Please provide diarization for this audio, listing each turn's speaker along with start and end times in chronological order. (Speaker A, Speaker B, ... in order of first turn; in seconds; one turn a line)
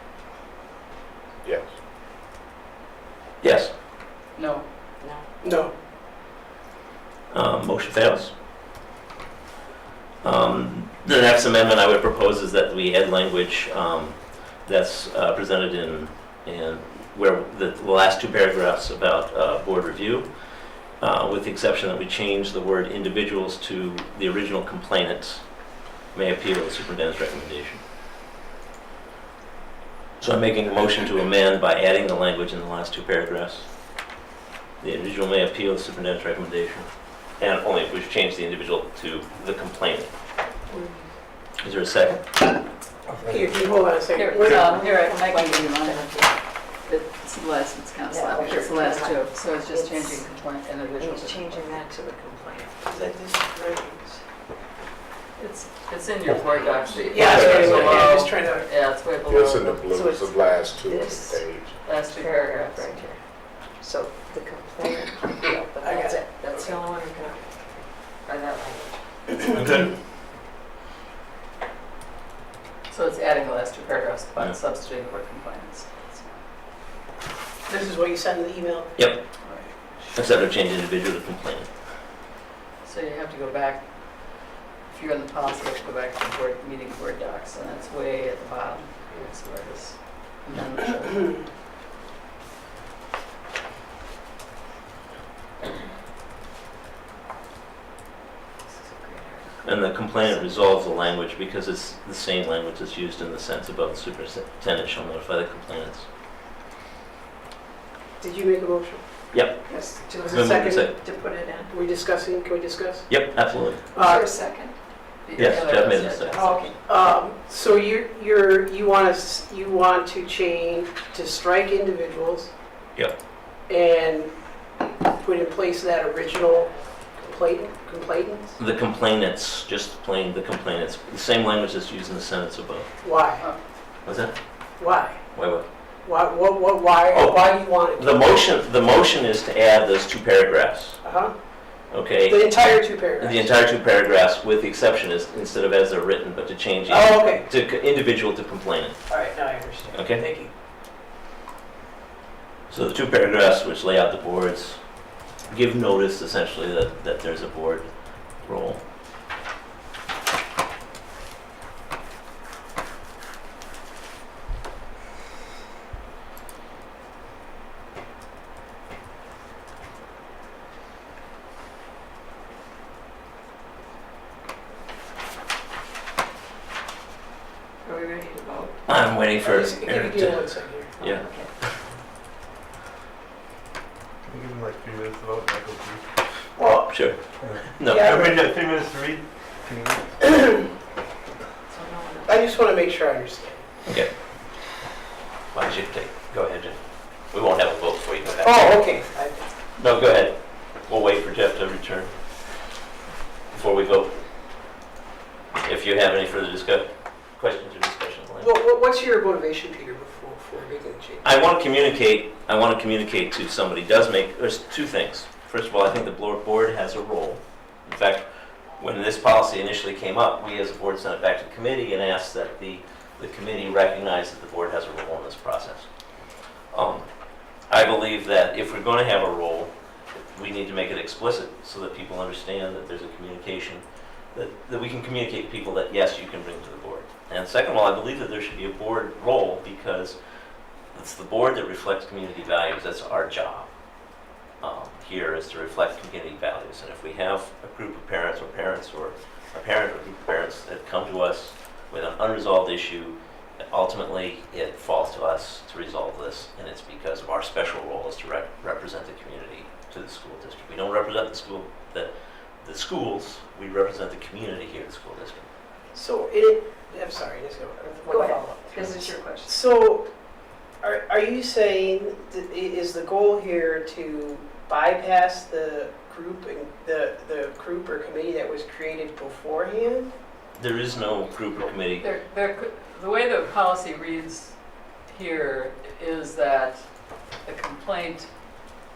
Speaker A: 3.4-3.7
Speaker B: 4.3-4.7
Speaker C: 5.4-5.7
Speaker A: 7.3-8.3
Speaker A: 10.2-20.3
Speaker A: 21.0-27.8
Speaker A: 30.2-33.7
Speaker A: 34.8-40.1
Speaker D: 40.7-41.0
Speaker A: 41.6-42.4
Speaker E: 43.1-43.7
Speaker C: 43.3-44.8
Speaker B: 44.1-46.1
Speaker D: 44.3-46.5
Speaker B: 46.6-51.7
Speaker D: 48.1-53.1
Speaker C: 52.9-54.2
Speaker B: 55.4-59.9
Speaker C: 57.1-58.7
Speaker F: 57.3-58.1
Speaker F: 59.2-61.9
Speaker D: 59.9-61.4
Speaker B: 61.8-63.2
Speaker D: 61.9-69.6
Speaker C: 65.8-66.8
Speaker A: 69.5-69.9
Speaker B: 72.9-76.4
Speaker C: 77.7-79.0
Speaker A: 79.0-79.2
Speaker B: 79.4-80.3
Speaker A: 79.9-81.7
Speaker B: 82.8-91.4
Speaker D: 98.7-100.9
Speaker A: 99.6-106.1
Speaker C: 108.2-109.0
Speaker A: 109.3-110.9
Speaker D: 109.6-111.7
Speaker C: 110.2-110.9
Speaker C: 111.7-114.3
Speaker A: 113.1-113.8
Speaker D: 113.9-114.8
Speaker B: 115.2-116.7
Speaker A: 115.3-116.5
Speaker D: 116.2-116.8
Speaker C: 116.8-122.5
Speaker C: 123.7-124.3
Speaker C: 125.2-128.6
Speaker A: 128.6-132.9
Speaker C: 133.0-133.4
Speaker A: 134.0-134.3
Speaker C: 134.8-135.2
Speaker A: 135.3-135.6
Speaker C: 136.0-138.3
Speaker A: 137.1-141.0
Speaker C: 141.0-141.3
Speaker A: 141.9-149.1
Speaker C: 142.3-143.5
Speaker C: 146.9-147.4
Speaker C: 149.1-150.5
Speaker A: 149.9-150.3
Speaker A: 152.7-158.8
Speaker D: 177.8-178.8
Speaker A: 178.9-181.2
Speaker C: 179.4-180.9
Speaker D: 181.0-181.5
Speaker E: 184.2-186.0
Speaker C: 186.6-186.9
Speaker A: 186.8-187.2
Speaker E: 187.5-190.2
Speaker A: 187.8-188.3
Speaker C: 187.8-188.4
Speaker D: 191.7-192.6
Speaker C: 192.2-193.6
Speaker A: 195.5-198.8
Speaker C: 198.4-199.5
Speaker A: 199.8-202.1
Speaker A: 203.5-204.2
Speaker A: 205.6-208.5
Speaker C: 208.4-211.3
Speaker A: 211.2-218.2
Speaker A: 218.8-225.9
Speaker A: 226.7-227.1
Speaker A: 227.7-229.7
Speaker A: 230.3-233.8
Speaker A: 234.3-240.2
Speaker A: 240.9-243.7
Speaker A: 244.6-253.2
Speaker A: 253.7-265.5
Speaker C: 265.9-270.1
Speaker D: 268.1-269.6
Speaker C: 270.8-280.1
Speaker A: 280.6-282.1
Speaker B: 282.0-288.3